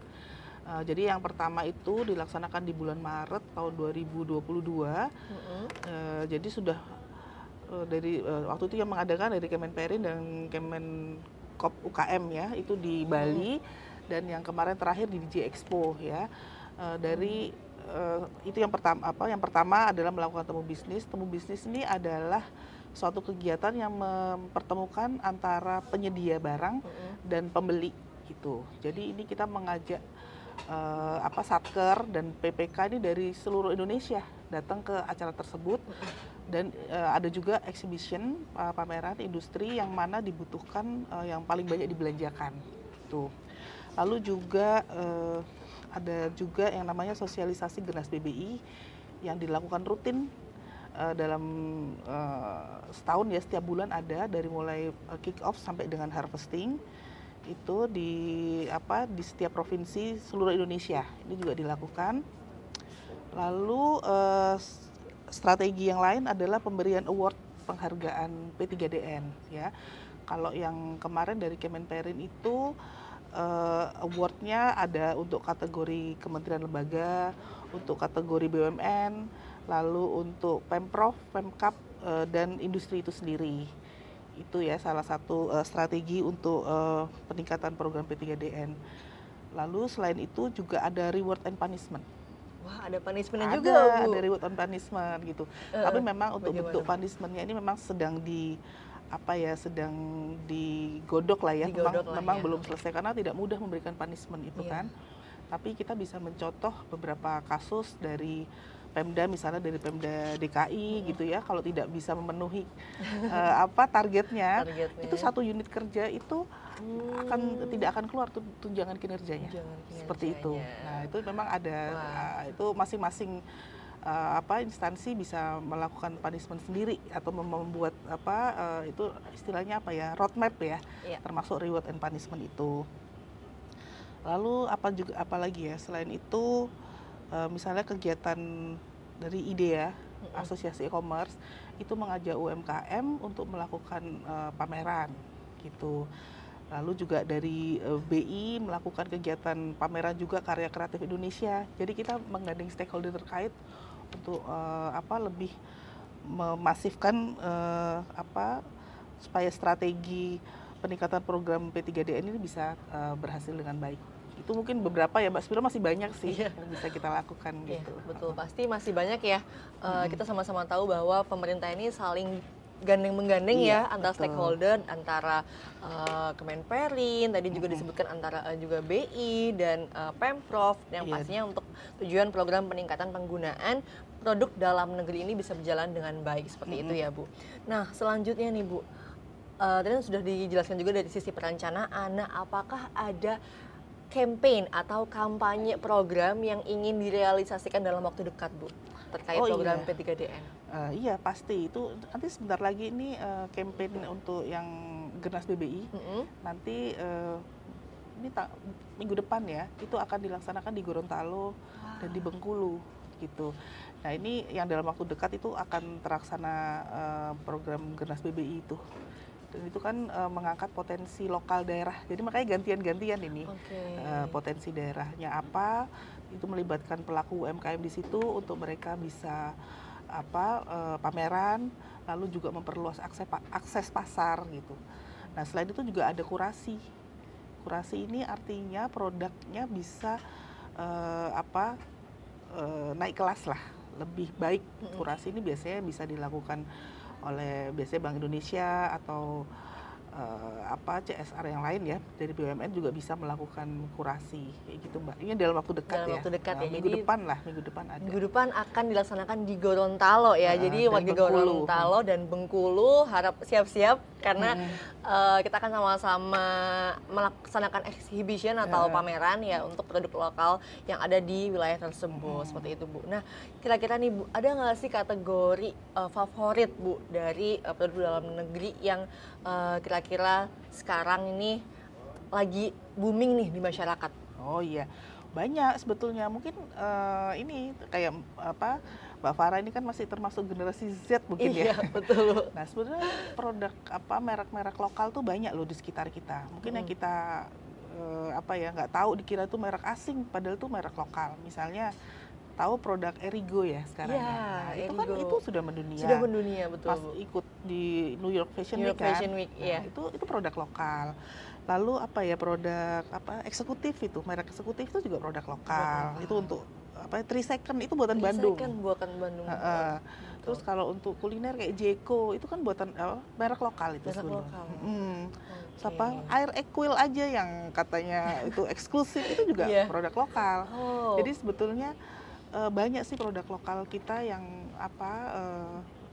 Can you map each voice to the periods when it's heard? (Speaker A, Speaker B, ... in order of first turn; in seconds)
Speaker A: 0.7-5.1, 5.8-6.8, 7.7-16.3, 16.8-22.4, 22.9-30.0, 30.7-43.3, 44.0-48.6, 49.2-50.3, 51.0-56.8, 57.5-62.2, 63.4-69.7, 70.3-72.7, 73.3-83.7, 84.3-88.8, 89.5-92.1, 93.4-98.6, 99.1-104.9, 105.5-116.4, 117.0-123.4, 124.0-132.8, 134.2-136.7, 137.3-146.1, 146.7-153.6, 154.1-155.5, 156.2-158.6, 159.2-168.4, 169.9-170.2, 173.5-174.6, 177.5-177.8, 181.0-181.3, 186.7-187.0, 199.3-199.9, 200.7-205.9, 206.4-207.5, 208.2-218.8, 219.5-229.6, 230.1-234.8, 235.3-236.8, 237.6-240.2, 240.8-241.8, 242.5-246.6, 247.2-258.2, 260.4-261.9, 264.4-264.8, 268.6-269.0, 272.1-272.7, 284.4-301.9, 302.6-306.3, 306.9-318.7, 319.5-331.9, 332.5-335.9
Speaker B: 5.3-5.7, 17.1-17.4, 26.8-27.2, 92.6-94.2, 95.8-96.9, 101.6-102.7, 104.6-104.9, 113.0-113.4, 114.6-115.3, 116.8-117.9, 119.4-121.1, 121.9-122.3, 140.2-140.5, 166.3-166.6, 167.7-188.8, 189.6-193.4, 194.1-200.5, 205.9-206.3, 211.8-212.3, 223.5-224.4, 255.9-257.1, 258.0-281.6, 282.3-284.1, 291.4-292.5, 296.6-296.9, 304.0-305.4, 306.0-307.1, 308.7-309.9, 315.7-316.6, 318.1-320.6, 324.1-324.9, 325.5-326.3, 329.5-329.9, 330.7-331.3